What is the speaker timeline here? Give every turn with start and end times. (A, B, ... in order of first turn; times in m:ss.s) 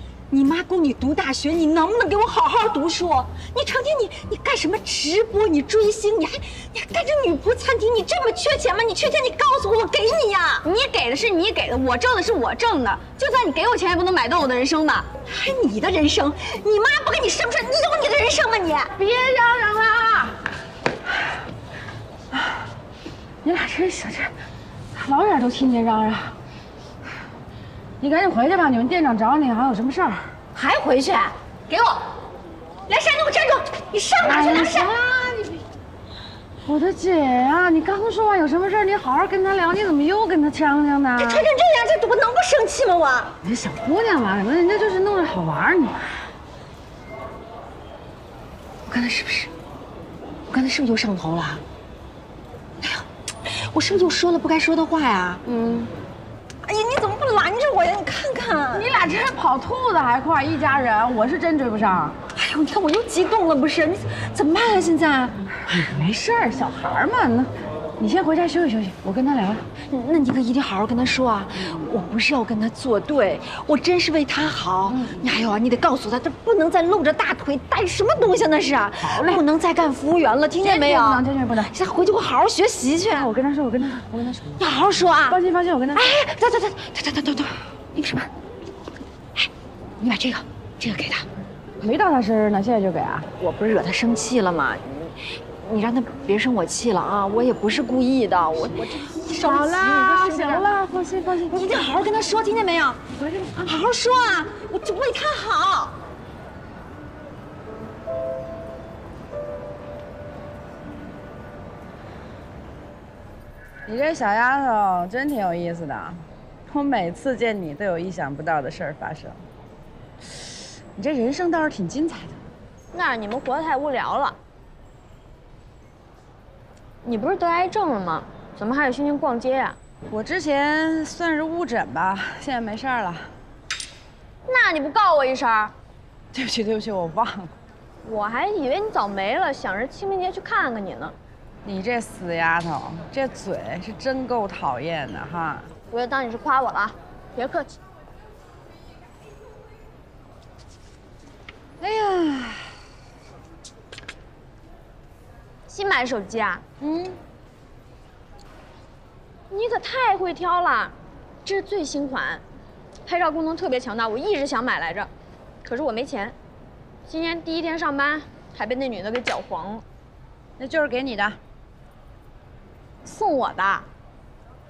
0:00.3-0:10.7 A
0:10.6-0:15.1 B
0:15.2-0:18.9 A
0:19.0-0:20.4 C
0:23.4-0:24.3 C
0:24.9-0:26.4 C
0:28.0-0:30.4 C
0:30.5-0:32.1 A
0:32.9-0:35.0 A
0:34.2-0:35.6 C
0:36.6-0:41.5 C
0:41.2-0:43.3 A
0:43.4-0:46.1 C
0:48.9-0:49.5 A
0:50.5-0:51.6 A
0:52.8-0:55.4 A
0:55.4-0:55.9 C
0:56.6-0:58.9 A
0:58.7-1:02.2 C
1:02.3-1:05.4 A
1:05.6-1:09.6 C
1:09.9-1:23.3 A
1:11.6-1:11.8 C
1:14.9-1:15.2 C
1:19.0-1:19.4 C
1:20.6-1:21.7 C
1:23.1-1:24.6 C
1:24.6-1:25.4 A
1:25.3-1:26.1 C
1:25.9-1:28.3 A
1:29.4-1:31.2 A
1:31.8-1:33.3 C
1:33.4-1:40.7 A
1:39.3-1:41.9 C
1:41.5-1:43.0 A
1:43.2-1:43.6 C
1:43.5-1:46.0 A
1:53.9-1:59.4 C
2:00.9-2:02.4 C
2:02.9-2:04.4 B
2:07.0-2:09.8 B
2:10.1-2:13.3 C
2:14.5-2:15.7 B
2:16.3-2:17.5 C
2:18.0-2:21.1 B
2:21.6-2:25.7 C
2:25.9-2:27.7 B
2:31.8-2:32.8 C
2:35.7-2:37.2 B
2:39.5-2:40.9 B
2:41.4-2:42.4 B
2:43.0-2:45.1 B
2:45.6-2:46.3 B
2:47.1-2:49.8 B
2:50.6-2:51.4 C
2:53.0-2:53.9 B